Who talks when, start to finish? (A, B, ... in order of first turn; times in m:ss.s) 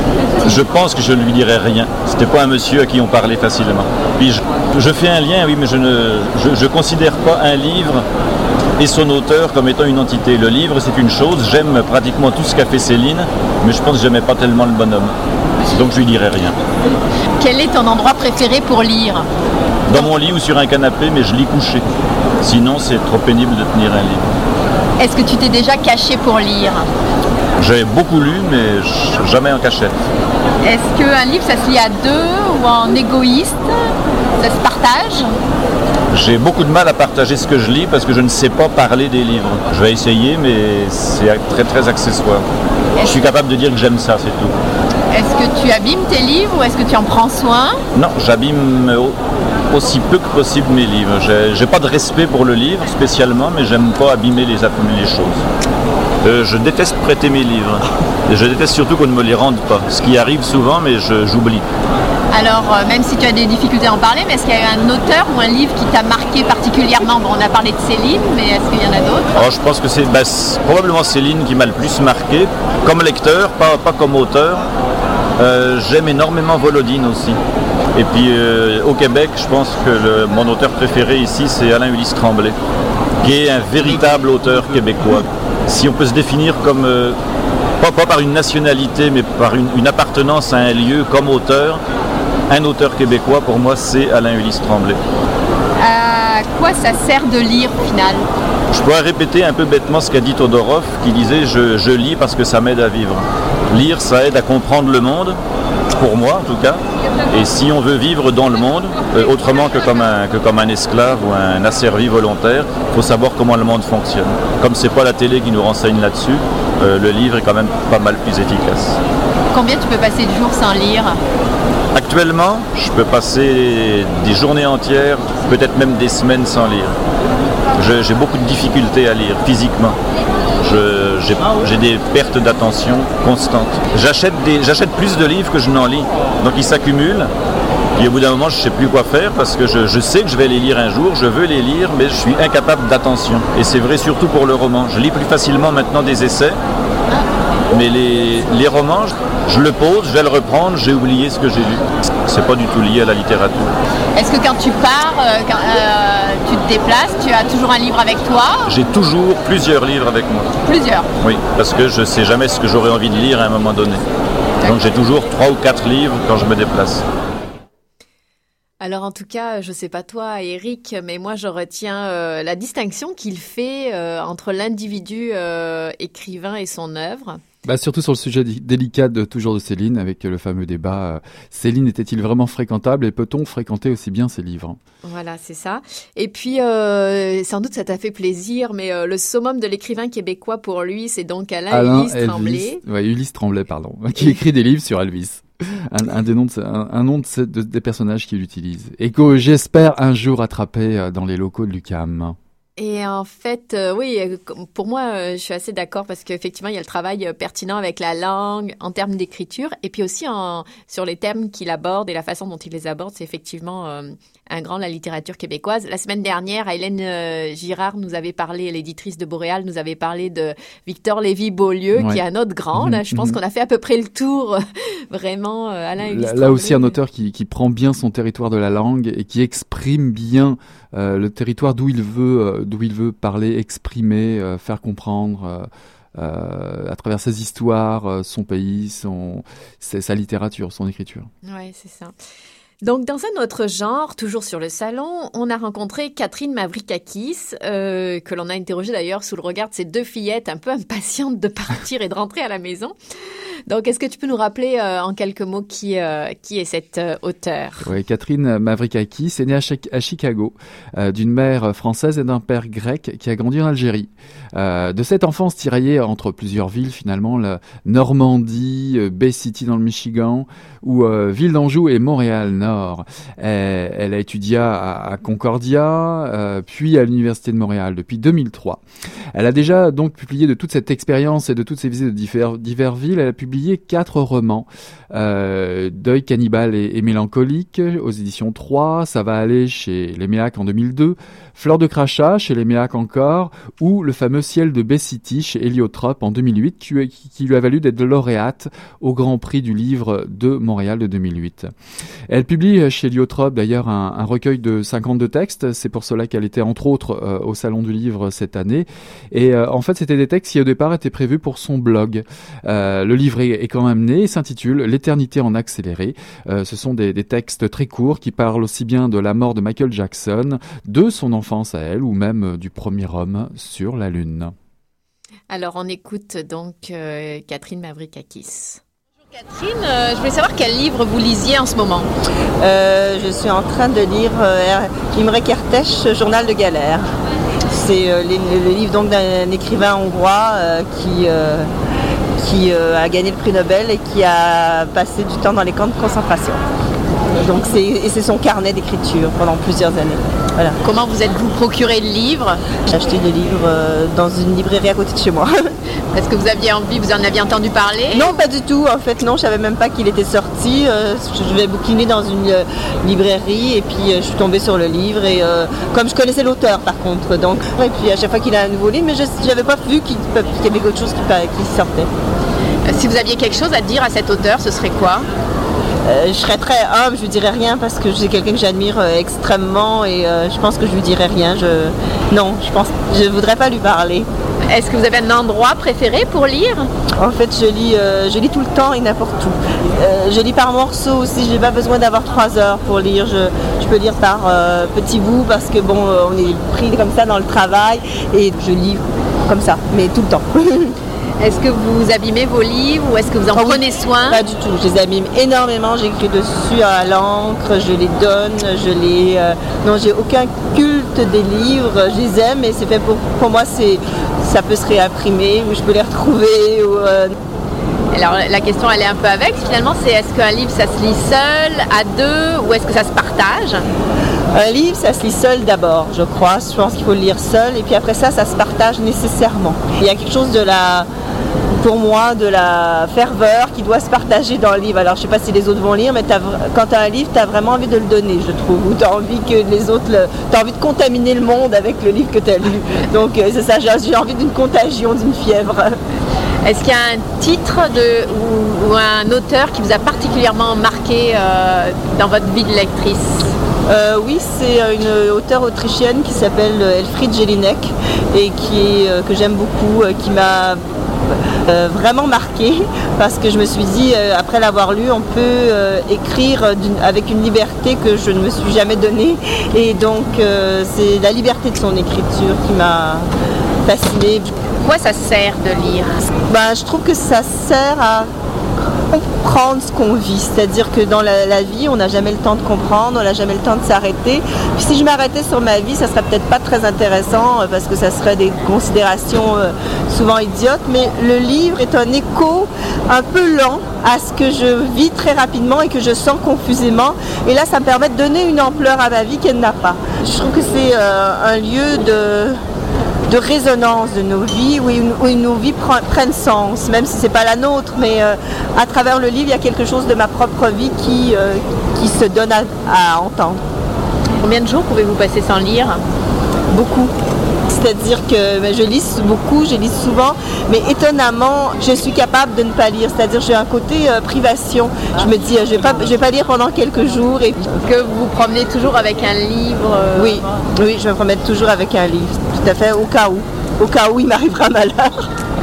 0:00.4-0:08.0 A
0:08.8-0:15.1 A
0:15.7-0:16.6 A
0:17.5-0:19.2 B
0:19.9-0:21.8 A
0:22.4-0:24.3 A
0:25.0-0:26.8 B
0:27.6-0:30.0 A
0:30.8-0:33.6 B
0:34.4-0:35.2 B
0:36.1-0:42.4 A
0:43.0-0:44.5 A
0:45.2-0:47.7 B
0:47.9-0:49.2 A
0:49.7-0:55.4 A
0:56.2-1:01.7 A
1:02.4-1:09.2 B
1:09.4-1:14.7 A
1:15.4-1:17.4 A
1:18.0-1:22.6 A
1:23.2-1:27.2 A
1:27.8-1:31.8 A
1:32.5-1:35.0 A
1:35.9-1:38.2 B
1:38.7-1:45.4 A
1:46.0-1:59.0 A
1:59.6-2:01.1 B
2:01.9-2:07.0 A
2:07.8-2:10.0 A
2:10.6-2:17.3 A
2:18.0-2:26.6 A
2:27.7-2:33.7 A
2:34.2-2:38.5 B
2:38.7-2:40.5 A
2:40.7-2:41.0 B
2:41.2-2:44.0 A
2:44.6-2:47.0 A
2:48.8-2:57.4 B
2:57.6-3:04.8 C
3:05.0-3:12.8 B
3:11.7-3:22.4 C
3:22.8-3:47.0 B
3:42.0-3:42.2 C
3:42.8-3:43.4 C
3:46.0-4:01.3 C
4:01.4-4:02.1 B
4:02.8-4:13.0 B
4:13.7-4:17.9 B
4:17.8-4:38.8 C
4:39.3-5:01.7 C
5:02.3-5:24.5 C
5:25.5-5:28.8 B
5:29.4-5:32.0 B
5:32.6-5:37.1 D
5:37.7-5:41.7 D
5:42.4-5:46.6 D
5:47.4-5:50.8 D
5:50.8-5:52.6 B
5:52.9-5:55.7 D
5:56.1-5:58.2 B
5:58.1-6:12.1 D
6:12.9-6:15.2 B
6:16.1-6:24.3 D
6:24.7-6:26.9 B
6:27.2-6:41.0 D
6:41.4-6:44.4 B
6:43.6-6:57.3 D
6:58.1-7:03.8 B
7:04.5-7:11.1 D
7:11.8-7:26.0 D
7:26.6-7:33.4 B
7:33.9-7:40.8 D
7:41.7-7:53.3 D
7:53.8-7:54.5 D
7:54.9-7:56.1 B
7:56.5-7:58.3 D
7:59.1-8:22.6 D
8:23.3-8:33.6 D
8:34.4-8:36.0 B
8:36.7-8:37.1 D
8:37.7-8:47.8 D
8:47.8-8:50.4 B
8:50.2-8:55.3 D